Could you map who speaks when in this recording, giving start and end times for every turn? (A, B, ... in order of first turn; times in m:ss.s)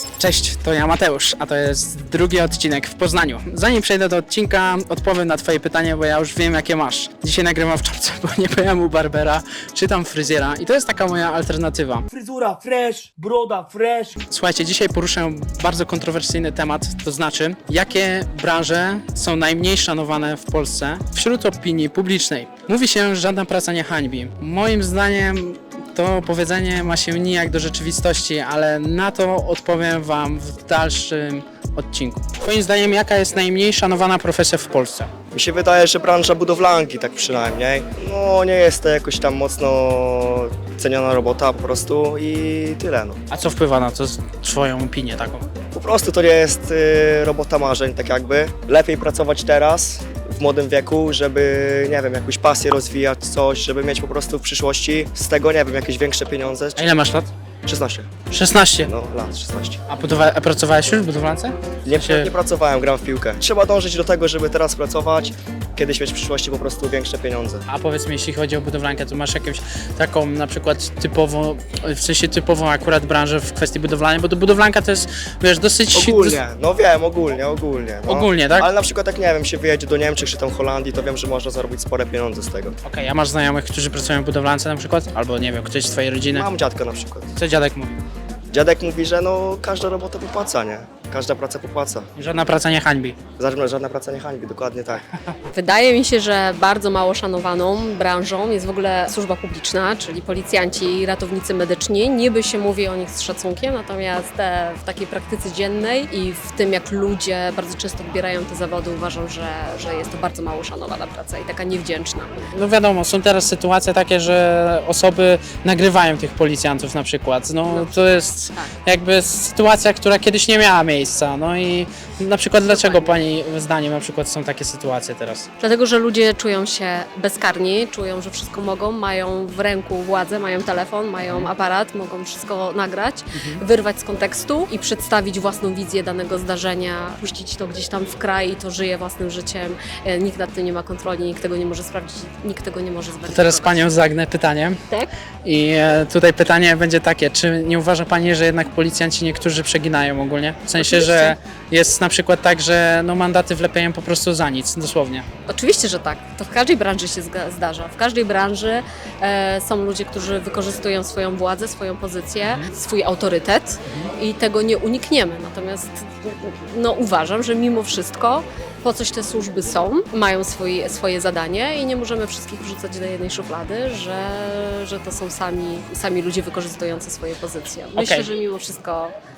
0:00.2-0:12.0 A
0:12.1-0:14.2 B
0:14.3-0:35.1 A
0:35.3-0:43.2 C
0:43.3-0:45.4 A
0:45.7-0:56.9 C
0:56.8-0:57.3 A
0:57.7-0:58.1 C
0:58.3-0:58.9 A
0:58.9-0:59.8 C
0:59.9-1:02.3 A
1:01.9-1:07.6 C
1:07.7-1:16.4 A
1:15.9-1:22.8 C
1:18.1-1:18.7 A
1:22.8-1:26.4 A
1:26.3-1:27.3 C
1:27.4-1:28.0 A
1:28.5-1:32.0 C
1:32.2-1:33.2 A
1:33.4-1:35.0 C
1:35.5-1:52.3 D
1:52.5-2:05.5 A
1:57.7-1:58.7 D
2:02.6-2:03.2 D
2:05.6-2:24.0 D
2:23.3-2:24.8 A
2:25.4-2:35.3 A
2:30.8-2:31.3 D
2:35.5-2:59.1 D
2:58.0-2:58.3 A